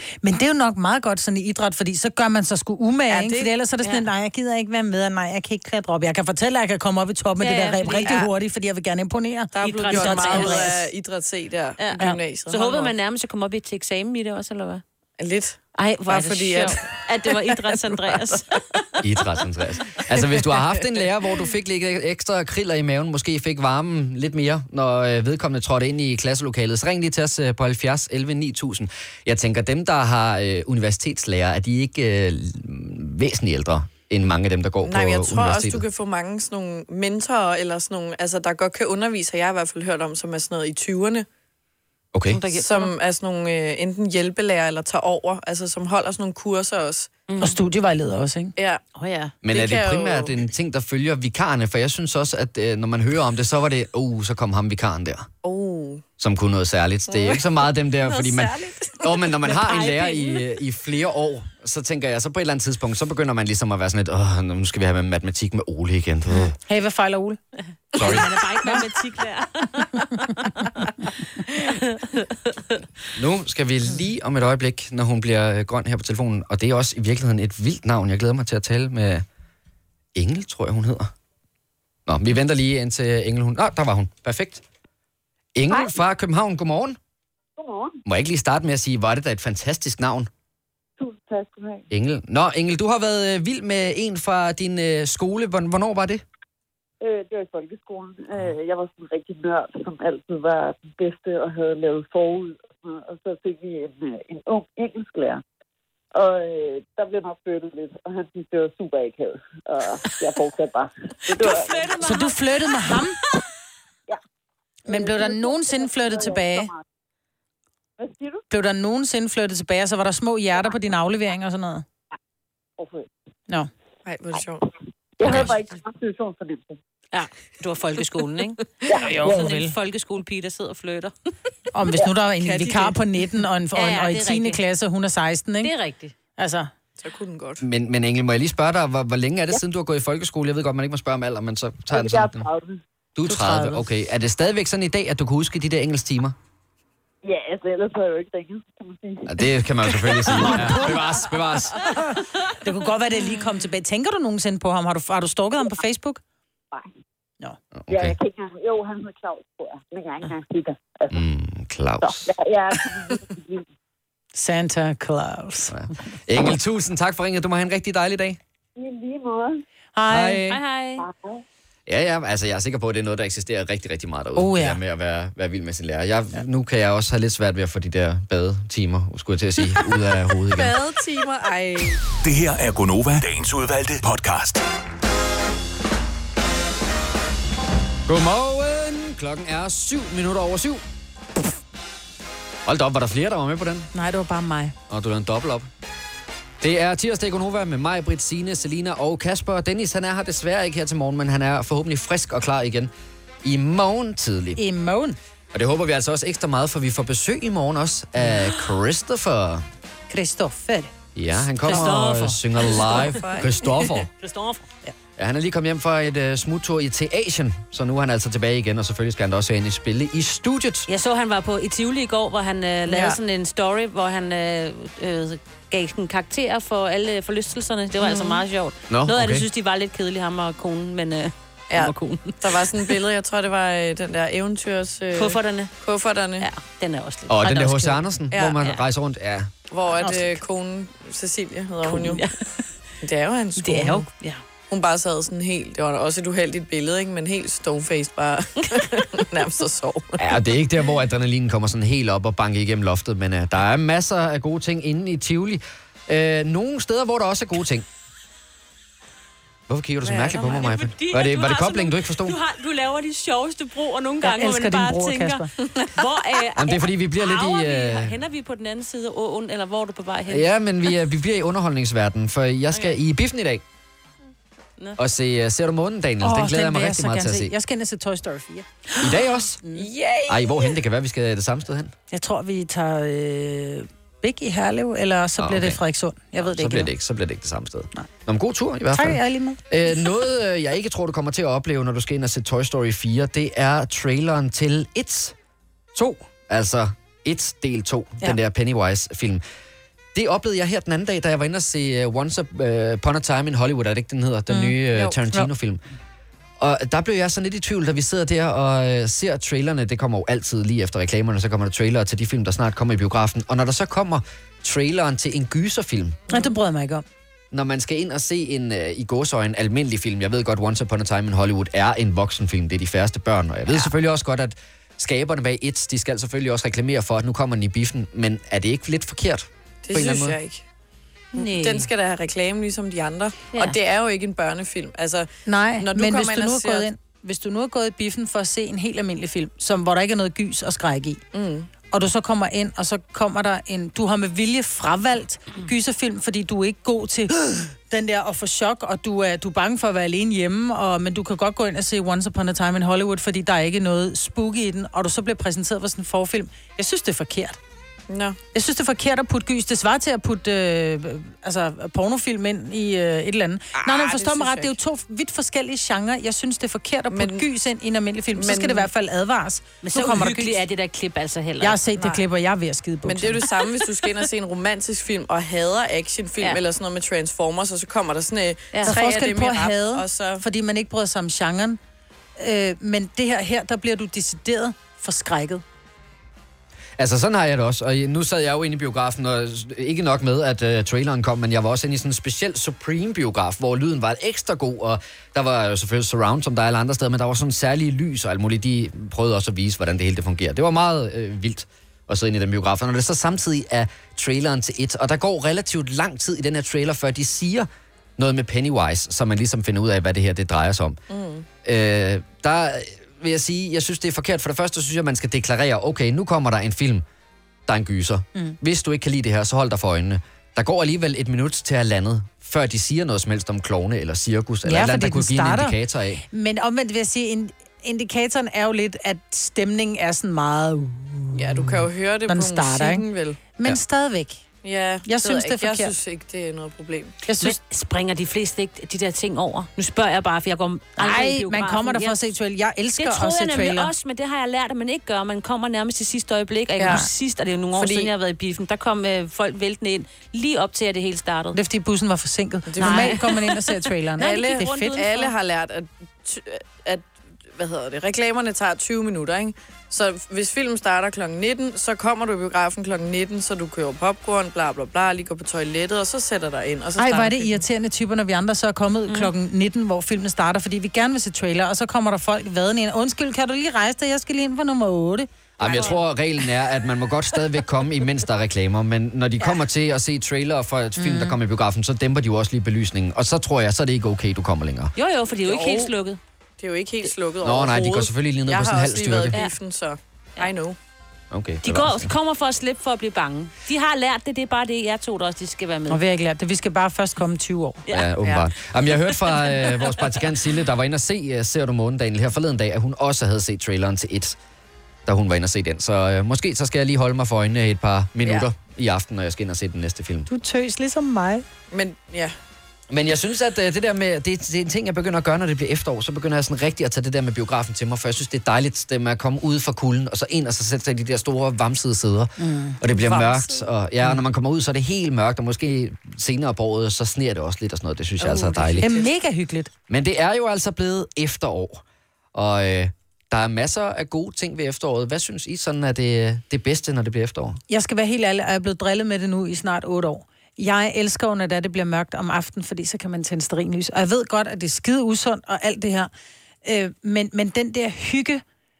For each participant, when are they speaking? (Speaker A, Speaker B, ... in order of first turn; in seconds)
Speaker A: 0.2-10.8, 47.4-48.5, 66.7-67.4, 112.0-113.2, 114.9-116.7, 118.5-121.8, 128.9-129.7, 131.7-135.7, 136.4-136.7, 143.3-143.8, 150.3-151.0, 151.8-156.2, 164.3-165.7, 169.9-170.5, 174.4-174.8, 193.9-194.7, 204.6-205.2, 210.1-210.9, 240.0-240.3, 264.2-265.5, 276.2-278.7, 282.1-286.9, 288.9-289.6, 304.5-305.5, 316.3-317.0, 335.4-341.2, 341.9-357.6, 358.5-370.6, 371.6-373.5, 378.8-381.8, 382.4-385.6, 424.6-425.8, 426.3-431.7, 432.3-434.4, 435.0-435.9, 437.2-437.6, 441.0-443.9, 451.5-455.0, 467.0-475.3, 481.0-481.4, 495.9-497.8, 510.3-511.4, 522.4-522.8, 528.8-529.7, 537.7-546.1, 546.6-548.4
Speaker B: 3.1-3.5, 9.5-12.9, 15.2-18.4, 34.8-41.2, 42.5-47.1, 48.6-48.8, 49.5-50.4, 55.4-56.0, 57.1-57.4, 58.1-59.0, 124.0-124.6, 132.4-133.0, 137.0-137.6, 180.5-182.0, 212.7-214.0, 222.9-223.2, 228.0-228.4, 231.7-236.5, 238.3-238.6, 239.7-242.2, 243.0-244.1, 244.7-250.2, 260.0-260.4, 265.7-266.0, 279.7-280.8, 329.8-330.6, 331.3-336.9, 341.3-341.7, 358.1-358.4, 363.8-364.7, 367.1-367.4, 368.3-368.9, 373.0-380.4, 411.1-411.4, 431.3-433.4, 434.6-437.1, 446.8-447.0, 447.7-448.1, 452.7-453.2, 454.2-467.6, 485.4-485.9, 486.6-490.8, 511.7-512.3, 523.1-523.5, 528.4-529.1
Speaker C: 7.4-8.2, 9.6-10.9, 11.8-14.8, 15.7-18.6, 42.3-42.9, 47.3-47.6, 49.0-49.3, 59.4-60.4, 67.9-70.9, 71.5-72.7, 111.3-113.0, 127.1-131.1, 133.7-134.6, 135.6-136.1, 170.5-171.0, 211.6-213.2, 214.2-214.6, 220.9-232.9, 235.1-235.7, 236.4-238.0, 241.8-242.4, 243.6-244.4, 260.3-270.5, 272.7-273.0, 331.3-331.9, 333.5-333.8, 369.8-371.8, 437.4-442.2, 443.0-451.6, 452.8-453.5, 454.2-455.3, 475.6-476.0, 484.9-486.2, 491.6-496.0, 499.4-499.7
Speaker D: 19.0-35.8, 42.1-42.4, 49.4-55.3, 56.2-66.5, 67.9-68.3, 73.2-79.2, 80.1-81.1, 82.1-84.6, 85.5-87.0, 88.0-90.3, 91.9-96.2, 137.6-142.5, 143.2-146.4, 149.2-151.8, 157.7-158.2, 161.1-162.3, 165.7-168.4, 170.1-170.6, 171.9-180.7, 188.1-190.8, 192.6-193.9, 194.9-195.7, 196.6-202.9, 203.4-204.6, 205.5-209.6, 211.1-214.1, 215.2-220.9, 228.9-229.4, 237.3-239.5, 250.2-257.9, 259.7-262.4, 266.6-268.1, 270.3-273.6, 275.0-277.5, 279.0-279.6, 280.3-281.9, 285.4-285.8, 286.4-295.3, 295.9-299.4, 300.1-305.8, 306.6-316.2, 317.5-330.4, 387.0-411.0, 411.6-417.0, 417.7-426.2, 475.6-484.9, 487.4-489.4, 491.3-492.1, 497.9-504.4, 505.1-510.3, 512.9-528.9, 529.9-531.8, 532.3-537.6
Speaker E: 85.7-86.0, 87.6-88.0, 91.0-91.8, 97.0-105.4, 106.1-111.9, 114.9-116.8, 118.0-118.4, 122.8-123.1, 125.2-126.8, 128.9-129.5, 141.9-142.8, 147.2-151.3, 157.9-161.2, 162.0-163.7, 168.8-169.6, 171.0-171.4
Speaker F: 182.2-184.6